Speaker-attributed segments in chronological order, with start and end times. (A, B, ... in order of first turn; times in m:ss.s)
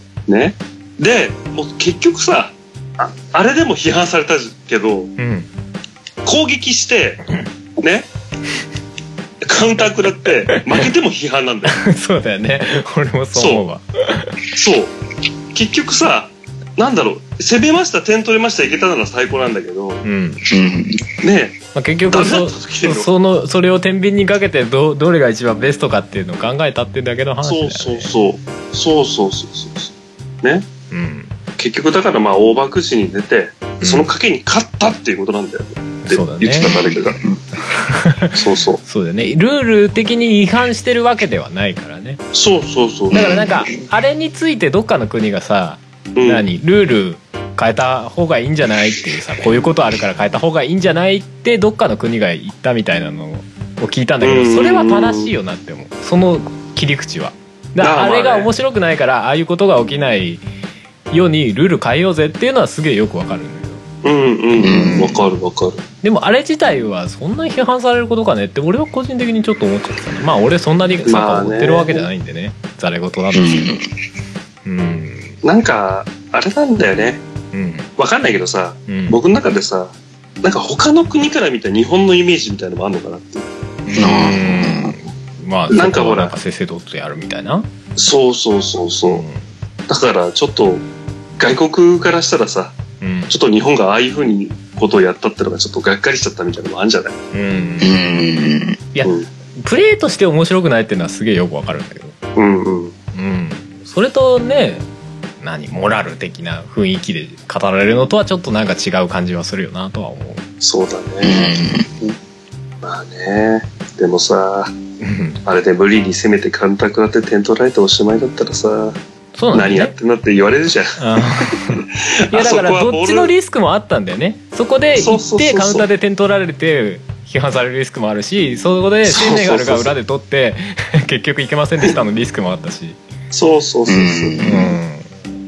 0:00.3-0:05.1 A
0:05.2-0:05.5 B
0:06.2-0:07.2 A
0:07.8-0:08.1 A
0:09.4-0:11.8 A
0:10.5-0:10.8 B
0:11.7-0:14.4 B
0:13.3-0:13.6 A
0:14.5-0:14.9 A
0:15.5-0:20.0 A
0:20.0-0:20.4 B
0:20.5-0:21.0 C
0:21.2-0:23.1 A
0:21.7-0:28.2 B
0:27.4-0:29.9 A
0:30.9-0:31.3 B
0:31.6-0:37.2 A
0:33.8-0:34.1 B
0:36.0-0:36.7 B
0:36.6-0:37.4 C
0:37.6-0:42.2 B
0:38.3-0:38.8 A
0:42.3-0:43.2 A
0:43.1-0:43.7 C
0:43.1-1:00.4 B
0:46.2-0:46.4 A
0:54.2-0:55.3 A
0:57.8-0:58.5 A
1:01.1-1:03.8 B
1:04.0-1:05.8 A
1:04.6-1:05.2 C
1:04.6-1:05.1 B
1:06.0-1:13.8 B
1:11.0-1:12.1 A
1:13.3-1:13.8 C
1:14.6-1:15.4 B
1:15.4-1:17.2 A
1:17.5-1:17.9 B
1:18.0-1:23.5 A
1:18.9-1:19.2 B
1:23.8-1:27.7 B
1:24.0-1:24.9 C
1:25.7-1:26.3 A
1:28.0-1:29.2 A
1:29.0-1:29.5 B
1:29.9-1:30.8 A
1:31.4-1:32.7 A
1:33.0-1:33.4 B
1:33.3-1:37.1 A
1:37.3-1:37.9 B
1:37.8-1:38.8 C
1:38.9-1:42.1 B
1:42.4-1:42.9 A
1:43.1-1:44.9 B
1:45.4-1:50.4 B
1:50.6-1:51.6 A
1:51.2-1:51.9 C
1:52.8-1:54.7 A
1:55.0-1:55.4 B
1:55.4-1:59.0 A
1:59.3-1:59.9 B
1:59.5-2:01.0 A
2:01.0-2:13.0 B
2:01.7-2:03.3 A
2:05.0-2:05.8 A
2:09.0-2:09.9 A
2:13.3-2:14.4 A
2:13.9-2:14.8 C
2:14.4-2:15.1 B